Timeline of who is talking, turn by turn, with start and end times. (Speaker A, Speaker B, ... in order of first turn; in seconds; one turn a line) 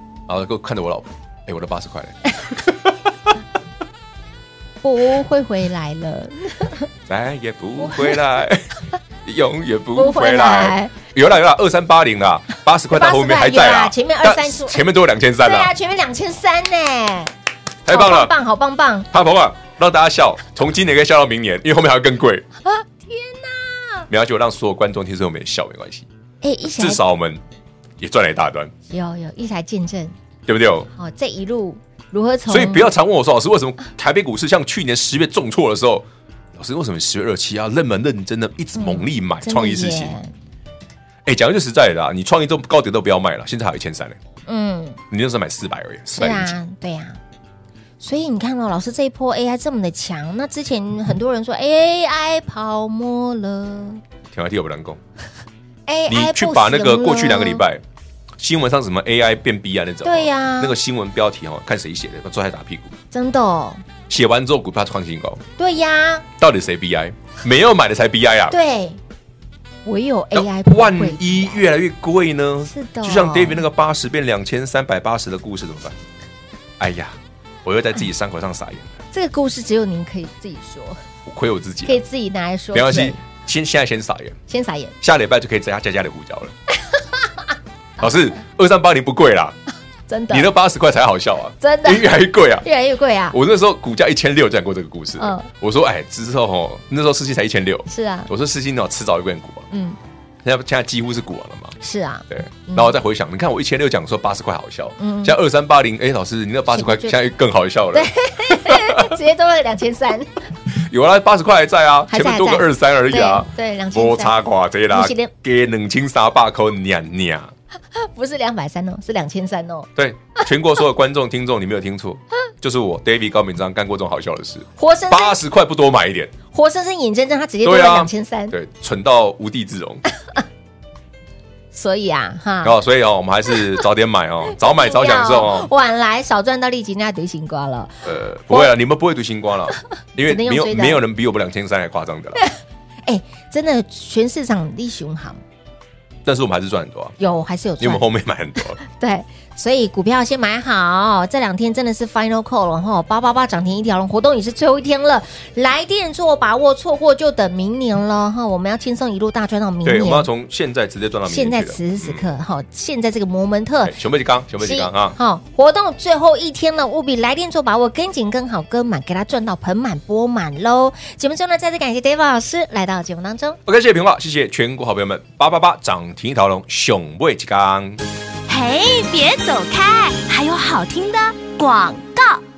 Speaker A: 0.3-3.3
Speaker B: 4.8-6.9
Speaker A: 7.1-8.7
Speaker B: 7.8-8.2
Speaker A: 9.2-15.7
Speaker B: 9.9-10.9
Speaker B: 12.9-14.8
Speaker B: 15.4-17.3
Speaker A: 17.8-18.3
Speaker B: 17.9-19.1
Speaker A: 19.1-22.4
Speaker B: 22.6-24.1
Speaker A: 24.1-26.1
Speaker B: 26.4-27.0
Speaker A: 26.6-27.4
Speaker A: 28.0-28.7
Speaker B: 28.9-30.1
Speaker A: 30.5-30.9
Speaker B: 30.9-32.9
Speaker A: 32.5-40.2
Speaker B: 38.8-40.3
Speaker A: 41.2-44.2
Speaker B: 44.5-45.0
Speaker A: 45.1-46.6
Speaker B: 46.1-47.2
Speaker B: 48.0-54.0
Speaker A: 54.3-55.0
Speaker B: 55.9-57.6
Speaker A: 56.1-57.8
Speaker A: 58.4-62.9
Speaker B: 60.0-60.8
Speaker B: 63.1-63.8
Speaker A: 64.1-65.4
Speaker B: 65.6-66.2
Speaker A: 66.4-68.5
Speaker B: 68.5-69.0
Speaker B: 69.8-71.6
Speaker A: 70.3-76.0
Speaker B: 72.7-73.6
Speaker A: 76.8-79.0
Speaker B: 79.1-81.0
Speaker A: 81.2-82.0
Speaker B: 81.8-83.2
Speaker A: 82.7-84.4
Speaker B: 84.5-84.9
Speaker A: 85.0-86.5
Speaker B: 86.9-87.3
Speaker A: 88.0-89.6
Speaker B: 90.1-90.5
Speaker A: 90.3-92.7
Speaker B: 91.6-93.4
Speaker A: 93.3-99.7
Speaker B: 95.2-95.5
Speaker B: 97.9-98.3
Speaker B: 99.7-100.0
Speaker A: 100.4-101.7
Speaker B: 101.8-103.0
Speaker A: 102.3-109.1
Speaker B: 105.0-105.4
Speaker B: 106.7-107.2
Speaker B: 107.9-110.4
Speaker A: 110.7-117.5
Speaker B: 112.1-114.4
Speaker B: 114.9-115.3
Speaker B: 117.9-120.5
Speaker A: 120.0-126.3
Speaker B: 124.8-125.4
Speaker B: 126.5-128.5
Speaker A: 127.6-130.0
Speaker B: 131.7-132.8
Speaker A: 132.6-135.7
Speaker B: 134.5-138.7
Speaker A: 138.0-142.4
Speaker B: 140.2-141.0
Speaker B: 143.1-145.4
Speaker A: 146.2-147.2
Speaker B: 147.2-148.0
Speaker A: 147.8-148.8
Speaker B: 148.8-160.3
Speaker A: 159.8-162.2
Speaker B: 161.3-163.9
Speaker A: 163.8-165.2
Speaker B: 164.6-173.6
Speaker A: 173.7-178.0
Speaker C: 178.5-181.6